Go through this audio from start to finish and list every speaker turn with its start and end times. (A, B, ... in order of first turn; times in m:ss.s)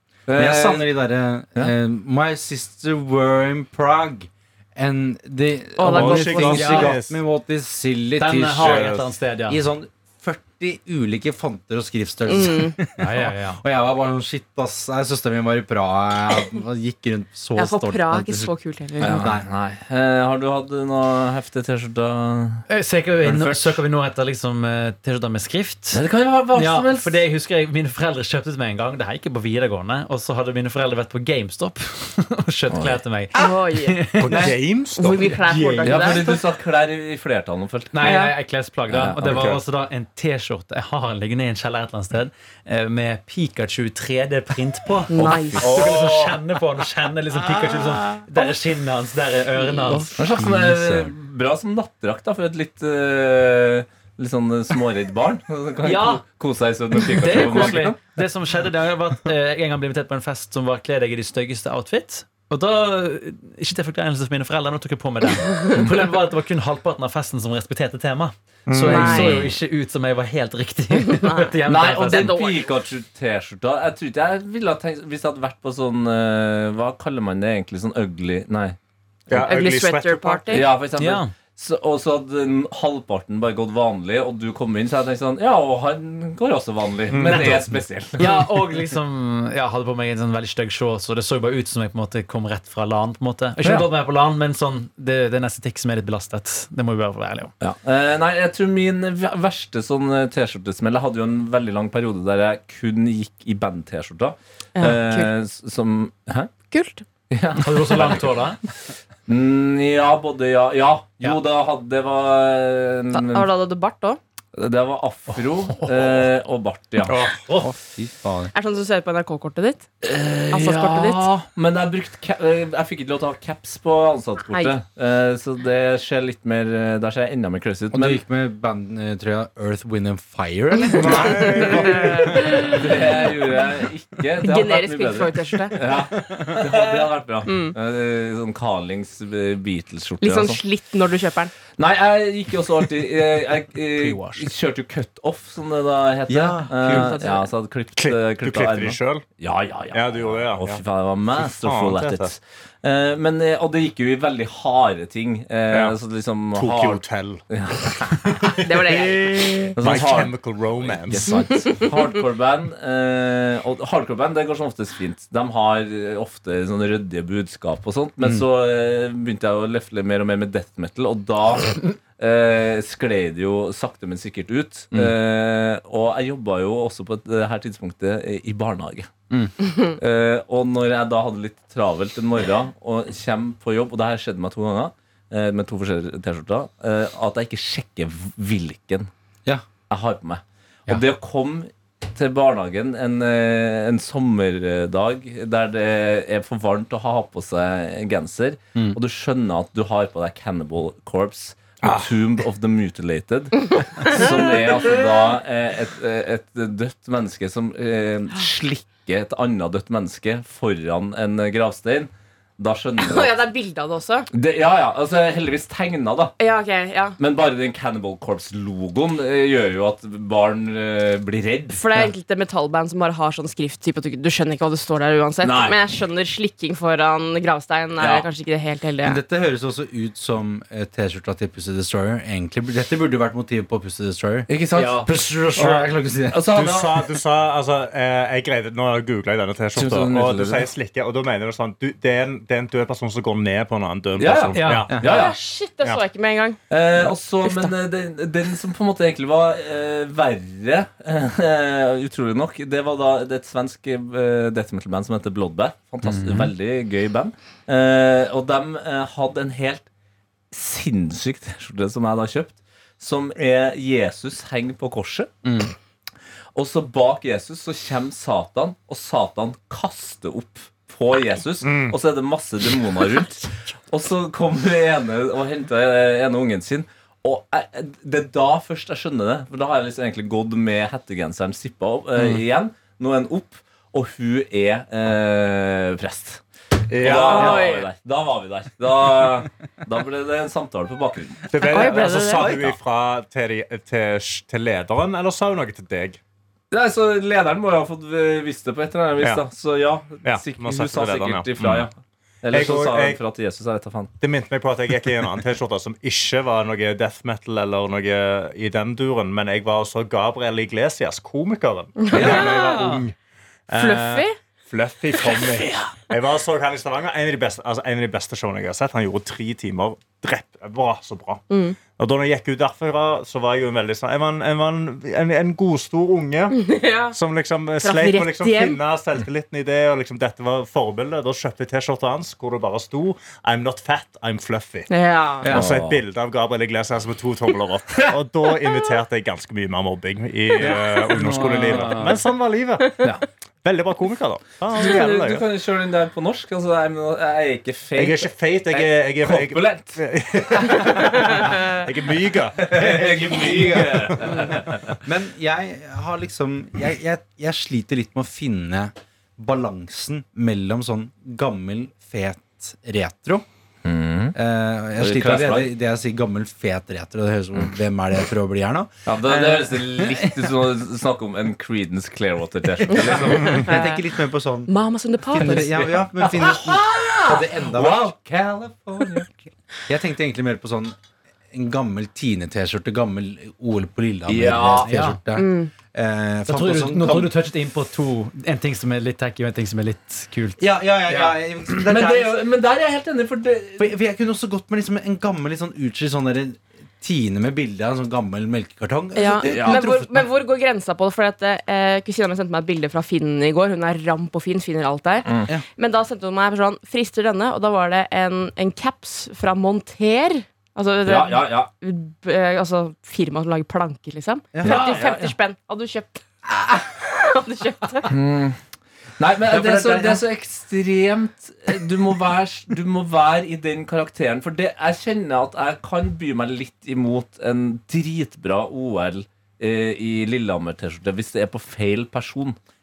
0:00.3-0:00.9 A
0:00.4-0:18.5 B
0:05.8-0:07.0 C
0:05.8-0:07.2 D
0:06.6-0:06.9 E
0:08.2-0:09.6 E
0:08.6-0:09.1 D
0:12.3-0:12.8 C
0:13.0-0:13.6 E
0:17.6-0:19.4 C
0:19.0-0:22.6 A
0:19.1-0:19.5 B
0:22.7-0:26.0 E
0:23.2-0:23.8 A
0:25.9-0:27.2 A
0:26.5-0:34.6 E
0:32.7-0:33.0 A
0:33.3-0:36.4 C
0:34.2-0:36.3 D
0:35.2-0:36.0 E
0:35.8-0:38.2 A
0:37.9-0:51.1 E
0:38.0-0:38.3 C
0:38.9-0:39.4 A
0:39.2-0:39.6 D
0:45.1-0:45.7 C
0:45.2-0:45.8 A
0:45.6-0:46.4 D
0:50.0-0:58.0 A
0:55.8-0:56.2 E
0:57.0-1:12.4 E
1:08.7-1:09.4 D
1:08.9-1:09.5 C
1:11.0-1:12.7 C
1:11.7-1:18.8 A
1:19.3-1:20.7 D
1:19.4-1:20.7 C
1:20.5-1:28.3 A
1:21.0-1:21.3 E
1:27.1-1:27.6 D
1:27.2-1:27.7 E
1:28.2-1:37.5 E
1:33.6-1:33.9 A
1:37.6-1:46.5 A
1:44.8-1:45.3 C
1:46.7-1:47.0 C
1:47.3-1:48.3 A
1:47.6-1:48.6 E
1:49.3-1:53.5 A
1:53.1-1:54.2 C
1:54.5-1:57.2 A
1:55.7-1:56.2 E
1:57.1-1:57.7 E
1:57.5-1:58.5 B
1:58.5-1:59.9 C
2:00.0-2:08.2 A
2:00.5-2:01.3 C
2:07.9-2:12.7 B
2:11.0-2:12.7 D
2:11.1-2:12.7 C
2:12.6-2:20.6 A
2:14.4-2:15.8 C
2:17.5-2:17.8 C
2:20.2-2:21.5 C
2:21.8-2:38.5 A
2:24.0-2:24.5 E
2:26.3-2:27.2 B
2:26.8-2:27.5 C
2:28.0-2:29.2 D
2:29.9-2:30.8 D
2:31.3-2:32.3 D
2:35.7-2:36.0 D
2:36.6-2:37.4 D
2:38.4-2:41.4 D
2:38.6-2:39.8 C
2:39.8-2:59.1 A
2:41.3-2:41.9 C
2:59.8-3:09.1 A
3:09.9-3:33.3 A
3:21.8-3:22.1 D
3:33.0-3:34.3 C
3:34.3-3:36.4 A
3:36.4-3:37.2 C
3:37.2-3:42.1 A
3:41.7-3:49.2 C
3:45.4-3:45.8 A
3:48.0-3:48.3 A
3:49.0-3:54.5 B
3:54.5-3:55.1 A
3:54.8-3:55.7 E
3:55.1-3:56.4 B
3:55.6-3:55.9 D
3:56.3-3:57.1 A
3:56.5-4:04.9 D
3:59.8-4:00.7 A
4:04.2-4:05.4 A
4:04.6-4:04.9 E
4:04.9-4:05.1 B
4:05.0-4:06.6 C
4:06.7-4:19.9 A
4:07.4-4:07.7 C
4:16.2-4:16.5 E
4:20.5-4:25.3 A
4:25.4-4:25.7 B
4:26.6-4:46.4 A
4:31.6-4:32.0 D
4:46.9-4:47.6 D
4:46.9-4:51.5 A
4:47.3-4:47.9 C
4:51.5-4:56.2 D
4:51.6-4:52.7 C
4:56.7-5:04.1 A
5:00.2-5:01.9 D
5:02.5-5:03.2 D
5:04.2-5:13.1 D
5:12.1-5:13.0 E
5:12.2-5:12.5 C
5:12.2-5:12.4 B
5:13.7-5:21.4 D
5:13.7-5:14.4 C
5:21.5-5:21.8 C
5:22.0-5:34.9 D
5:26.6-5:27.2 C
5:27.8-5:28.8 C
5:34.9-5:35.5 C
5:35.5-5:43.0 D
5:35.5-5:36.0 A
5:40.6-5:42.2 E
5:43.6-5:45.4 D
5:44.7-5:51.6 A
5:48.0-5:54.6 D
5:52.6-5:55.0 A
5:52.8-6:03.4 B
6:03.8-6:04.4 A
6:04.4-6:10.5 B
6:05.0-6:05.7 A
6:09.1-6:13.7 A
6:12.9-6:14.7 B
6:13.4-6:14.0 C
6:14.7-6:15.8 C
6:15.3-6:18.2 B
6:15.4-6:19.3 A
6:19.9-6:21.0 B
6:21.5-6:27.3 B
6:24.3-6:25.0 A
6:24.9-6:25.2 E
6:25.4-6:25.7 C
6:26.5-6:30.6 E
6:30.6-6:32.3 B
6:31.1-6:33.9 A
6:33.8-6:40.3 B
6:39.2-6:58.1 C
6:39.4-6:39.8 A
6:45.2-6:45.5 A
6:51.0-6:51.7 A
6:54.5-6:55.0 B
6:54.6-6:55.3 A
6:58.1-6:58.6 A
6:59.2-7:12.6 A
6:59.5-7:00.2 B